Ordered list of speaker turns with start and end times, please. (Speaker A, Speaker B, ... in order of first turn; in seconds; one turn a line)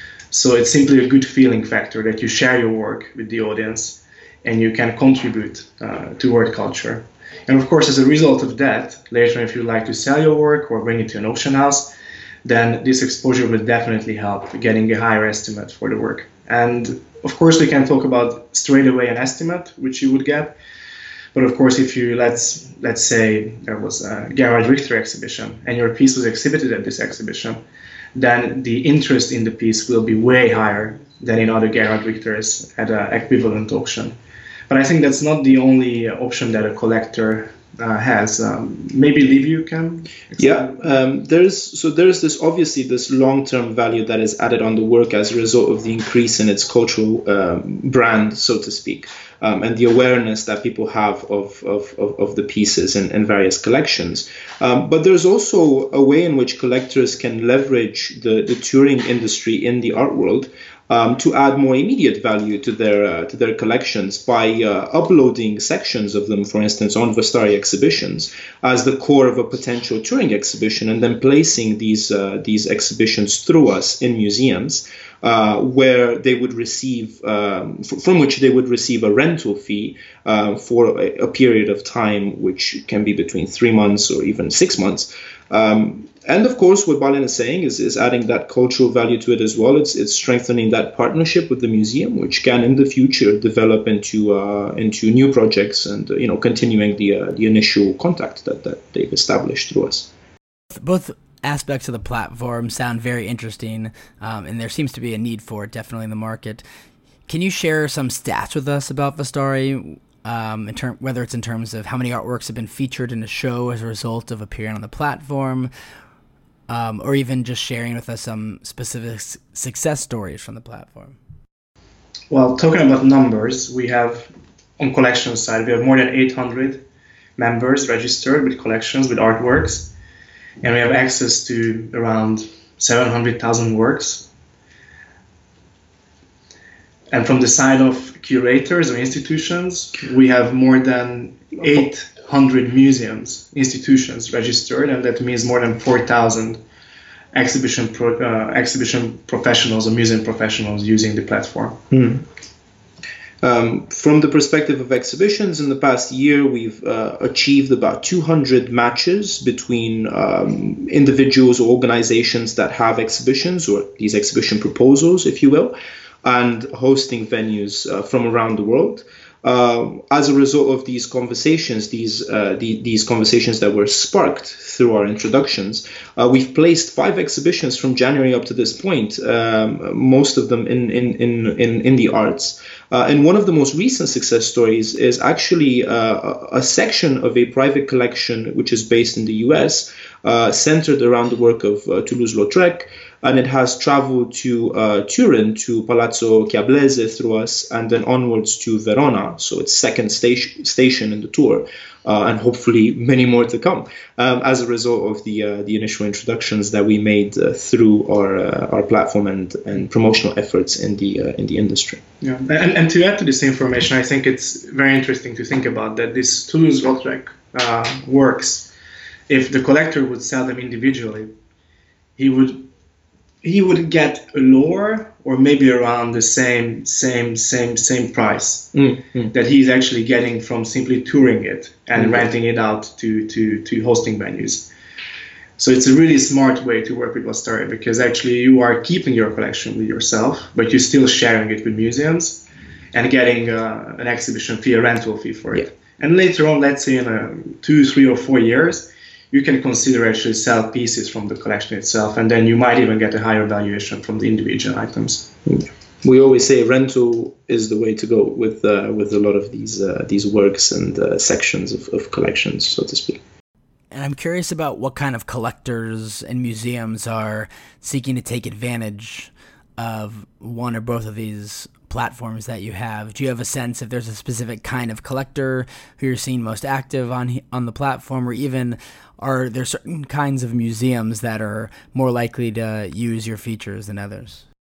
Speaker A: 0.3-11.9
Speaker A: 12.4-20.6
Speaker A: 21.3-27.6
Speaker A: 28.1-34.2
Speaker A: 34.7-40.8
Speaker B: 40.4-100.1
Speaker C: 100.7-106.6
Speaker C: 107.3-115.7
Speaker C: 116.7-121.2
Speaker A: 122.3-126.8
Speaker A: 127.4-129.9
Speaker A: 130.6-134.3
Speaker A: 137.1-146.6
Speaker A: 147.3-151.8
Speaker B: 151.9-152.2
Speaker B: 153.4-212.0
Speaker A: 212.2-218.7
Speaker A: 219.3-221.3
Speaker A: 222.2-222.7
Speaker A: 223.4-228.7
Speaker B: 228.7-229.3
Speaker A: 229.3-234.7
Speaker B: 231.9-232.2
Speaker A: 235.6-255.3
Speaker B: 255.4-263.2
Speaker C: 263.9-284.4